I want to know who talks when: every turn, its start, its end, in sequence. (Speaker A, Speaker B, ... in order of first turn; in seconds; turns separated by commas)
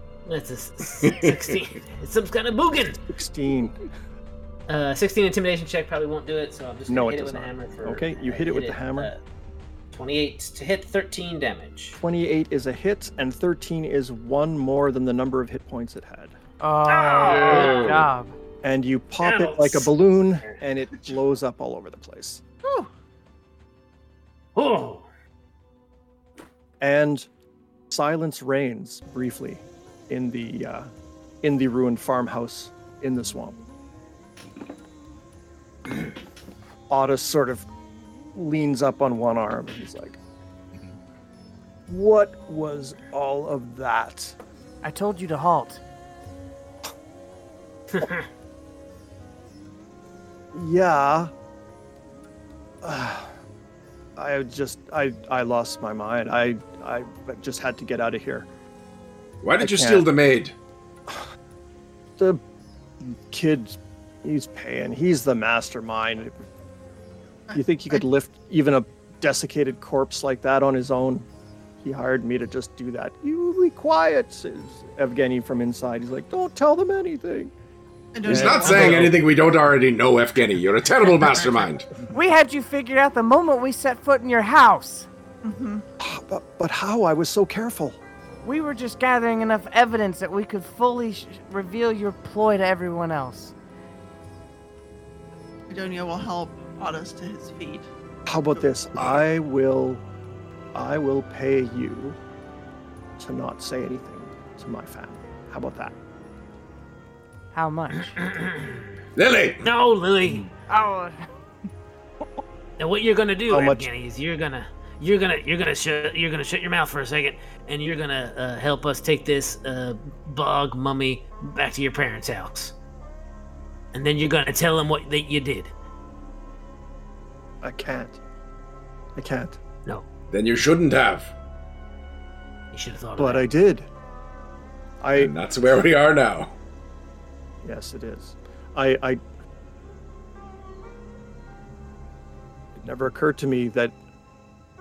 Speaker A: 0.3-3.0, Speaker B: 1.0-1.3, Speaker C: 2.9-3.8, Speaker A: 4.7-9.2, Speaker C: 6.9-9.1, Speaker A: 9.9-12.0, Speaker C: 12.0-16.4, Speaker D: 16.6-18.3, Speaker A: 16.9-18.1, Speaker B: 17.2-18.1, Speaker C: 18.6-22.4, Speaker A: 19.2-20.6, Speaker E: 22.6-22.9, Speaker A: 24.6-25.1, Speaker C: 26.8-27.3, Speaker C: 27.9-30.9, Speaker C: 31.4-33.6, Speaker C: 36.9-37.7, Speaker C: 38.4-40.2, Speaker C: 41.9-44.4, Speaker D: 44.8-45.8, Speaker A: 47.9-48.3, Speaker C: 50.5-51.3, Speaker C: 52.8-53.4, Speaker C: 54.2-58.5, Speaker B: 59.4-60.5, Speaker C: 59.6-60.1, Speaker C: 63.0-66.4, Speaker E: 67.5-68.0, Speaker C: 67.5-71.3, Speaker C: 71.8-77.5, Speaker E: 78.1-79.2, Speaker C: 78.2-79.1, Speaker B: 78.3-81.9, Speaker A: 78.6-79.2, Speaker D: 82.1-85.1, Speaker E: 85.4-85.8, Speaker C: 86.0-88.0, Speaker D: 88.4-93.5, Speaker E: 95.7-97.9, Speaker C: 98.3-100.0, Speaker C: 100.7-102.2, Speaker C: 103.2-106.0, Speaker D: 107.5-108.2, Speaker A: 108.2-108.8, Speaker B: 109.2-109.7, Speaker A: 109.6-110.5, Speaker D: 110.7-111.2, Speaker A: 112.8-122.7, Speaker C: 113.5-113.9, Speaker A: 123.9-125.7, Speaker C: 127.6-128.2, Speaker C: 129.2-129.6, Speaker B: 130.3-131.3, Speaker A: 132.7-133.5, Speaker C: 133.2-133.9, Speaker C: 135.0-135.3, Speaker B: 135.2-136.5, Speaker C: 137.6-139.2, Speaker C: 142.8-143.9